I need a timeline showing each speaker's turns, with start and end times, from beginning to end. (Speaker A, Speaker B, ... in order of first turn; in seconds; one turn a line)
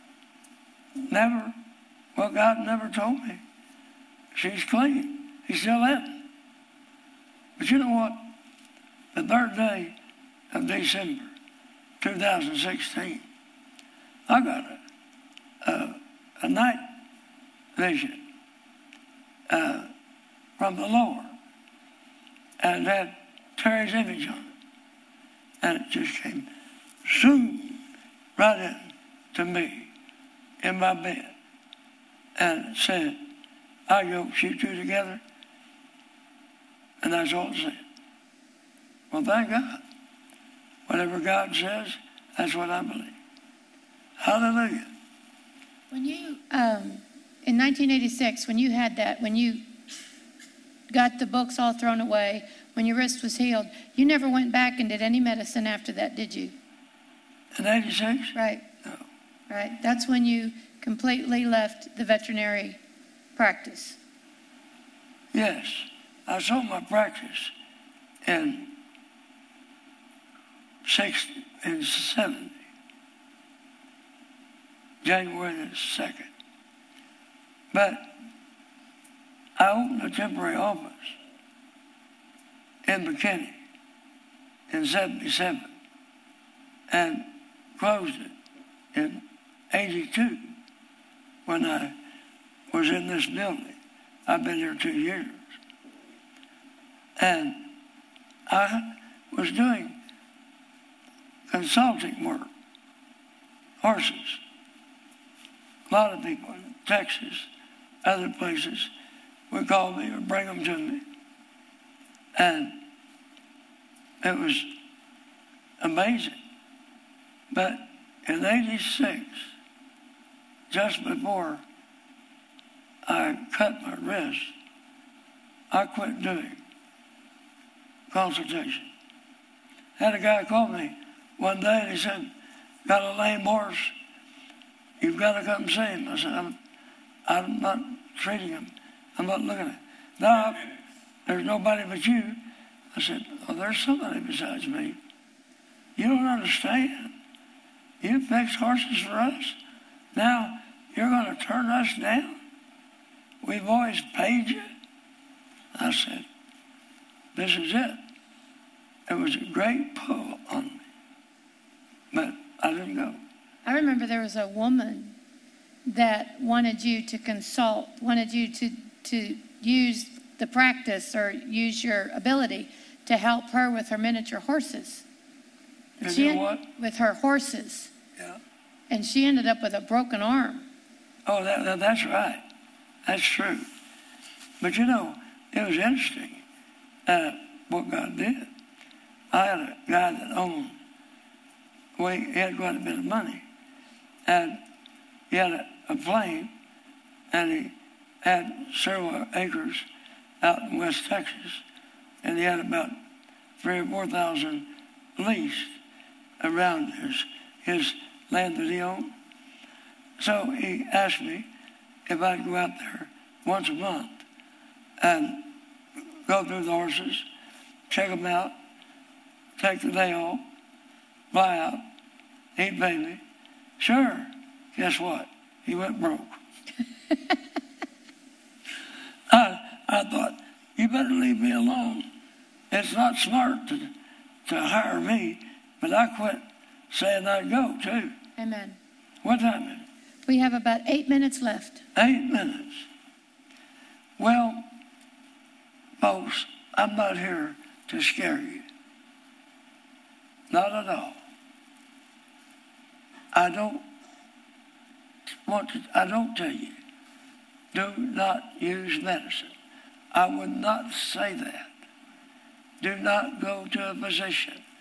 Speaker A: 1.0-1.6
Speaker A: 2.1-3.4
Speaker A: 4.3-6.2
Speaker A: 7.6-8.3
Speaker A: 9.1-10.0
Speaker A: 10.5-11.3
Speaker A: 12.0-13.3
Speaker A: 14.3-14.8
Speaker A: 15.6-16.9
Speaker A: 17.8-18.2
Speaker A: 19.5-19.9
Speaker A: 20.6-21.3
Speaker A: 22.6-24.5
Speaker A: 25.6-26.5
Speaker A: 27.0-27.8
Speaker A: 28.4-29.9
Speaker A: 30.6-31.3
Speaker A: 32.4-33.2
Speaker A: 33.9-35.2
Speaker A: 37.0-37.8
Speaker A: 39.1-39.8
Speaker A: 40.9-43.1
Speaker A: 44.2-44.9
Speaker B: 45.9-49.6
Speaker B: 50.9-56.5
Speaker A: 57.5-59.0
Speaker B: 58.4-58.6
Speaker B: 59.5-62.8
Speaker B: 63.4-64.0
Speaker A: 65.3-67.5
Speaker A: 68.2-68.7
Speaker A: 70.8-72.6
Speaker A: 75.0-76.3
Speaker A: 77.7-78.2
Speaker A: 79.6-81.2
Speaker A: 82.8-83.6
Speaker A: 84.7-85.8
Speaker A: 86.9-88.3
Speaker A: 88.9-90.5
Speaker A: 91.5-92.0
Speaker A: 92.7-95.4
Speaker A: 97.2-97.6
Speaker A: 98.5-100.0
Speaker A: 101.5-102.5
Speaker A: 103.8-104.4
Speaker A: 105.9-107.5
Speaker A: 108.0-108.9
Speaker A: 109.5-111.1
Speaker A: 112.3-112.8
Speaker A: 114.2-114.7
Speaker A: 115.8-116.4
Speaker A: 117.5-119.5
Speaker A: 120.7-121.6
Speaker A: 123.0-124.5
Speaker A: 125.7-126.6
Speaker A: 128.1-128.9
Speaker A: 130.0-132.3
Speaker A: 132.8-133.9
Speaker A: 135.0-136.6
Speaker A: 137.3-145.0
Speaker A: 146.0-147.2
Speaker A: 148.0-149.6
Speaker A: 150.1-152.4
Speaker A: 153.4-154.7
Speaker A: 155.7-156.3
Speaker A: 157.3-158.0
Speaker A: 159.1-160.8
Speaker A: 162.1-163.2
Speaker B: 163.7-165.2
Speaker B: 165.9-175.0
Speaker A: 176.0-176.7
Speaker B: 176.0-177.9
Speaker B: 178.9-180.7
Speaker A: 181.3-182.4
Speaker A: 183.1-183.7
Speaker A: 184.6-186.4
Speaker A: 187.1-188.5
Speaker A: 189.3-190.8
Speaker A: 192.0-193.4
Speaker A: 194.2-194.6
Speaker A: 195.3-196.5
Speaker A: 197.3-199.9
Speaker A: 200.4-201.6
Speaker A: 202.2-202.9
Speaker A: 203.6-205.8
Speaker A: 206.4-209.1
Speaker A: 210.2-211.5
Speaker A: 212.1-214.2
Speaker A: 215.0-215.5
Speaker A: 216.3-217.3
Speaker A: 217.9-218.6
Speaker A: 219.6-220.4
Speaker A: 221.3-221.9
Speaker A: 222.6-223.2
Speaker A: 223.8-226.4
Speaker A: 229.3-232.1
Speaker A: 232.7-233.9
Speaker A: 234.5-238.2
Speaker B: 238.4-238.8
Speaker A: 239.2-239.9
Speaker B: 240.3-241.8
Speaker A: 241.9-242.9
Speaker A: 244.2-244.7
Speaker A: 246.0-248.7
Speaker A: 250.5-251.2
Speaker A: 253.3-253.8
Speaker A: 255.5-256.8
Speaker A: 257.7-259.5
Speaker A: 260.1-261.7
Speaker A: 262.8-264.6